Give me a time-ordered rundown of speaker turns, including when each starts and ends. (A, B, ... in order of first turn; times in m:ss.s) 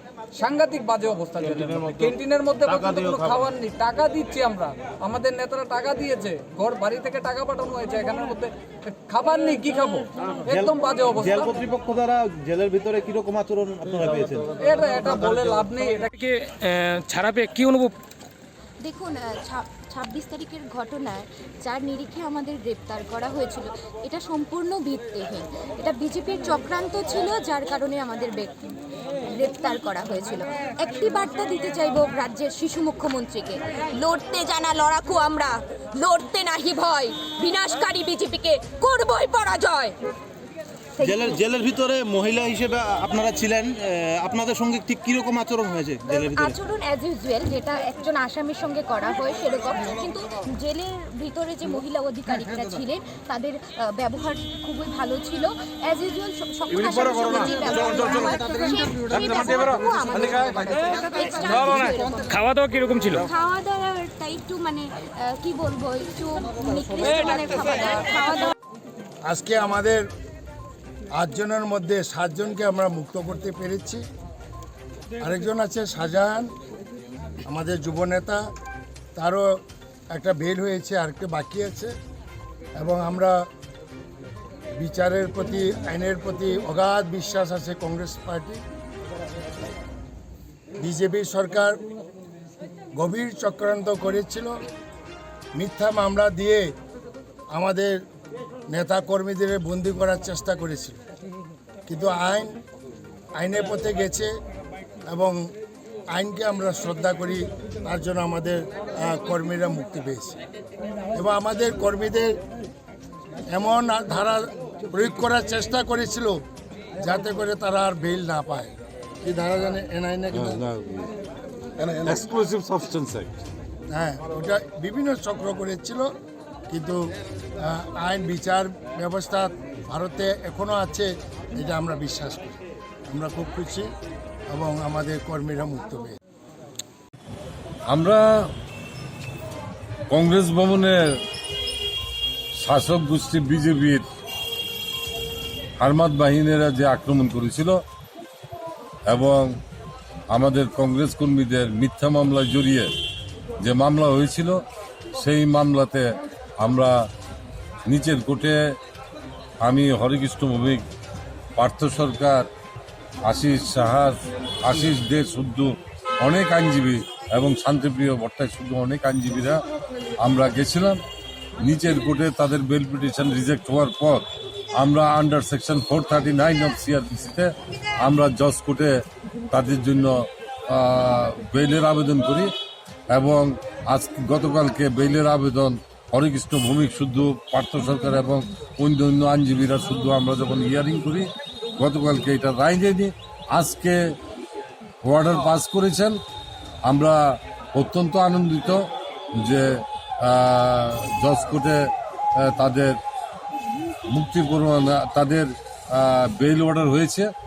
0:00.4-0:11.6 A
0:10.5-0:14.5 B
0:14.6-0:16.1 A
0:16.1-0:18.0 C
0:18.8-0:28.5 D
0:29.3-0:40.0 D
0:41.0-0:41.3 D
0:41.0-0:46.6 B
0:46.2-1:02.1 D
0:52.5-0:52.8 B
1:01.7-1:03.3 C
1:03.3-1:08.5 D
1:09.3-1:10.0 E
1:11.2-1:14.0 E
1:15.2-1:16.5 E
1:17.4-1:18.4 E
1:19.2-1:19.4 E
1:20.1-1:21.9 E
1:22.8-1:23.3 E
1:24.8-1:28.6 E
1:30.8-1:31.8 E
1:33.0-1:34.5 E
1:35.6-1:36.7 E
1:37.5-1:37.9 E
1:38.7-1:41.0 E
1:41.9-1:42.5 E
1:43.4-1:44.3 E
1:45.1-1:45.4 E
1:46.1-1:50.4 E
1:51.2-1:52.3 E
1:53.5-1:56.4 E
1:57.0-2:00.6 E
2:00.3-2:01.1 F
2:01.8-2:03.4 F
2:03.9-2:06.1 E
2:06.7-2:07.0 E
2:07.6-2:12.6 E
2:13.1-2:13.9 E
2:14.5-2:16.2 E
2:17.9-2:18.2 F
2:20.1-2:21.0 F
2:22.6-2:24.1 F
2:25.8-2:27.8 F
2:29.1-2:29.5 F
2:30.3-2:32.9 F
2:33.6-2:34.6 F
2:35.2-2:36.0 F
2:36.6-2:36.9 F
2:37.9-2:38.6 F
2:39.6-2:40.8 F
2:41.6-2:42.5 F
2:43.2-2:49.6 F
2:50.2-2:51.0 F
2:51.6-2:54.2 F
2:54.8-2:57.5 F
2:58.0-2:58.9 F
2:59.5-3:00.1 F
3:00.7-3:02.5 F
3:03.1-3:14.0 F
3:15.0-3:16.2 F
3:16.9-3:17.2 F
3:17.7-3:18.8 F
3:19.4-3:19.7 F
3:20.2-3:21.8 F
3:22.4-3:22.9 F
3:24.1-3:27.3 F